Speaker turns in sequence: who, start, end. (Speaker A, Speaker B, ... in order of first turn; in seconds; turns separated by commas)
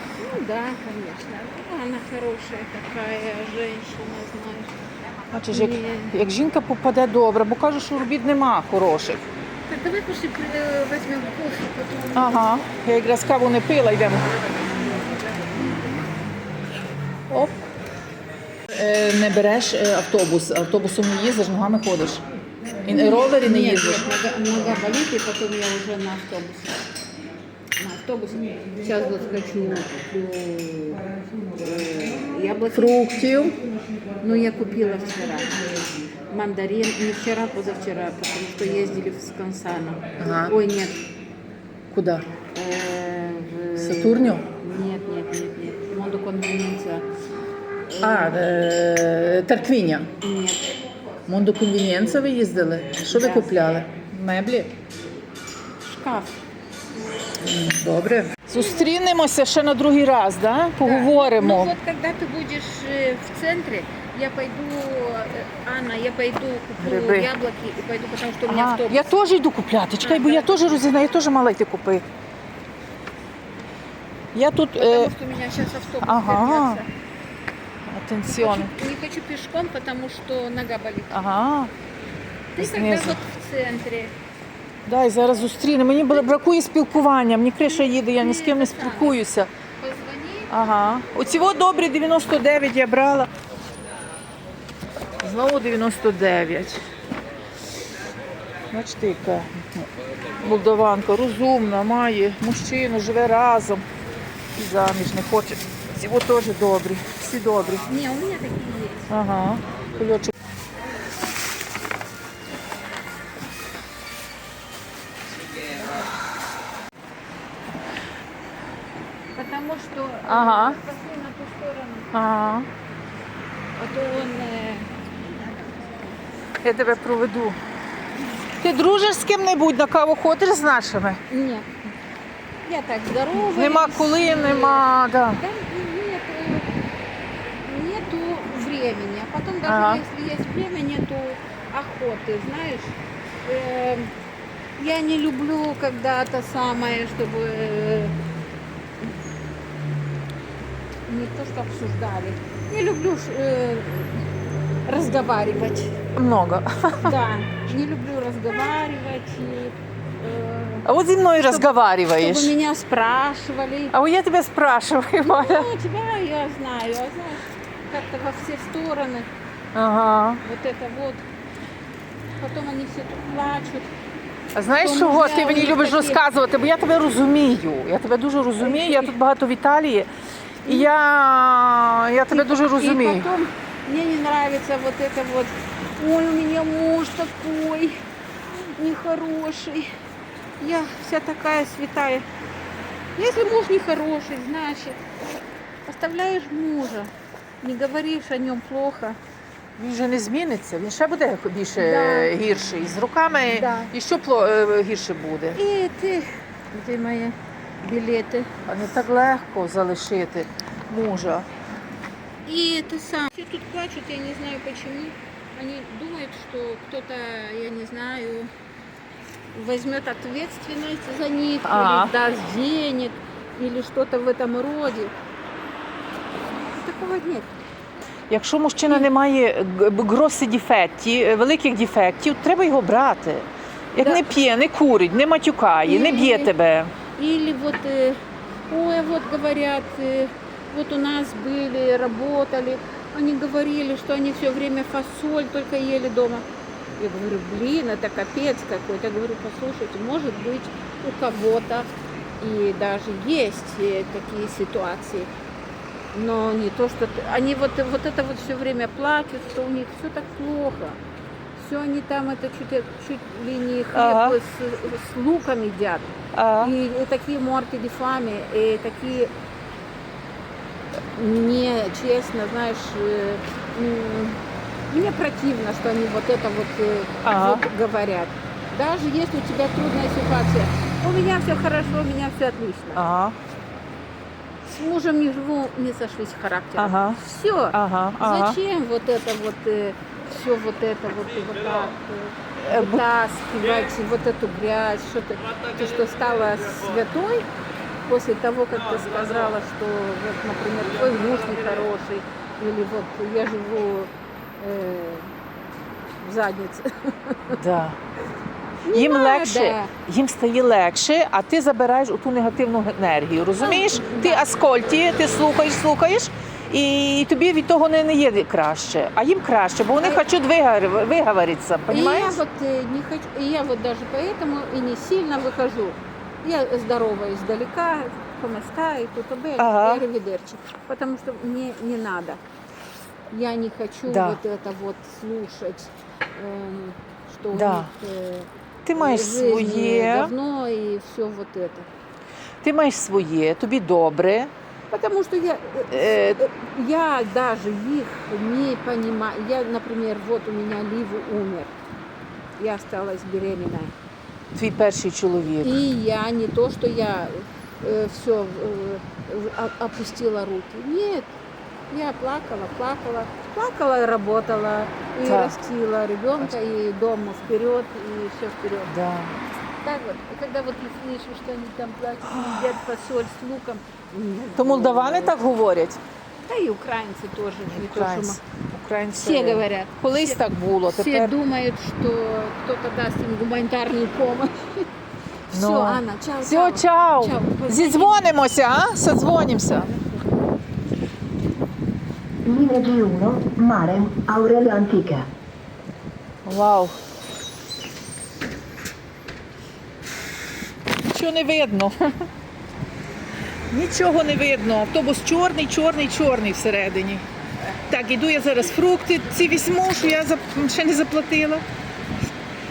Speaker A: 0.2-4.7, Speaker B: 5.3-9.2, Speaker A: 5.5-6.1, Speaker A: 9.7-12.4, Speaker B: 12.1-14.3, Speaker B: 18.7-22.2, Speaker B: 22.8-24.0, Speaker A: 22.9-26.8, Speaker A: 27.8-33.5, Speaker B: 32.7-33.6, Speaker A: 34.2-41.0, Speaker B: 40.2-40.5, Speaker B: 41.9-42.3, Speaker A: 42.5-47.1, Speaker B: 43.7-44.5, Speaker A: 47.9-48.5, Speaker B: 48.0-50.1, Speaker A: 50.2-50.8, Speaker B: 51.3-54.7, Speaker A: 52.7-53.9, Speaker A: 55.8-56.4, Speaker B: 57.4-61.7, Speaker A: 60.8-69.1, Speaker B: 66.8-67.3, Speaker B: 68.5-72.0, Speaker A: 70.0-70.8, Speaker B: 74.3-75.1, Speaker A: 74.8-76.9, Speaker B: 76.0-76.8, Speaker B: 77.9-78.7, Speaker A: 78.3-81.3, Speaker B: 81.1-81.7, Speaker A: 82.5-84.1, Speaker B: 82.6-83.2, Speaker B: 84.8-89.5, Speaker A: 87.6-89.2, Speaker A: 89.8-90.5, Speaker B: 90.5-93.3, Speaker B: 95.2-96.8, Speaker B: 98.7-99.9, Speaker B: 100.4-103.8, Speaker B: 104.5-107.8, Speaker A: 107.8-109.0, Speaker B: 109.1-110.3, Speaker A: 119.3-122.1, Speaker B: 120.2-120.8, Speaker B: 122.1-122.7, Speaker A: 123.8-125.8, Speaker B: 126.6-127.6, Speaker B: 128.6-131.2, Speaker A: 131.3-131.7, Speaker A: 132.6-134.8, Speaker B: 133.5-135.4, Speaker A: 135.4-136.7, Speaker A: 137.5-144.1, Speaker B: 139.7-140.0, Speaker A: 144.8-148.1, Speaker A: 151.1-154.2, Speaker A: 154.8-155.9, Speaker B: 156.2-157.1, Speaker A: 157.0-160.9, Speaker B: 160.8-162.5, Speaker A: 161.4-163.9, Speaker B: 163.9-165.7, Speaker A: 165.3-169.3, Speaker B: 169.7-170.4, Speaker A: 170.4-171.2, Speaker A: 172.4-173.9, Speaker B: 174.5-180.1, Speaker A: 174.7-176.2, Speaker A: 178.6-179.1, Speaker B: 180.6-183.3, Speaker A: 182.3-189.9, Speaker A: 190.6-192.2, Speaker A: 193.2-195.0, Speaker A: 195.8-197.1, Speaker A: 197.6-199.2, Speaker B: 199.8-205.6, Speaker A: 201.8-202.4, Speaker A: 203.5-203.9, Speaker A: 205.5-208.5, Speaker B: 208.7-211.5, Speaker A: 212.4-218.5, Speaker A: 219.5-225.1, Speaker B: 221.6-222.1, Speaker A: 226.7-227.6, Speaker B: 228.3-236.9, Speaker A: 234.0-234.2, Speaker A: 235.8-236.5, Speaker A: 237.1-246.4, Speaker A: 247.0-255.3, Speaker A: 256.1-261.0, Speaker A: 261.6-269.3, Speaker B: 263.9-264.4, Speaker B: 266.3-266.7, Speaker A: 271.1-274.4, Speaker A: 274.9-283.0, Speaker B: 277.2-277.6, Speaker B: 282.9-283.3, Speaker A: 284.6-297.5, Speaker B: 286.8-288.6, Speaker B: 292.6-293.0, Speaker A: 298.0-305.3, Speaker A: 306.2-307.6, Speaker B: 307.5-308.0, Speaker A: 308.8-309.9, Speaker B: 308.9-322.4, Speaker A: 313.6-314.4, Speaker A: 321.9-332.4, Speaker B: 329.6-330.0, Speaker A: 333.3-341.9, Speaker B: 334.1-334.4, Speaker B: 337.5-337.9, Speaker B: 338.8-340.3, Speaker B: 342.6-344.5, Speaker A: 344.9-351.7, Speaker B: 345.9-346.4, Speaker A: 352.6-353.9, Speaker B: 354.5-355.8, Speaker A: 355.6-361.3, Speaker A: 361.9-368.9, Speaker B: 365.2-365.6, Speaker B: 368.9-369.4, Speaker A: 369.8-375.4, Speaker B: 372.2-372.7, Speaker B: 374.6-376.0, Speaker A: 376.4-378.4, Speaker B: 377.7-381.3, Speaker A: 379.2-384.9, Speaker A: 385.5-388.3, Speaker B: 385.5-390.0, Speaker C: 392.4-395.3, Speaker B: 396.4-396.9, Speaker B: 401.1-402.2, Speaker B: 403.7-407.2, Speaker B: 407.9-411.6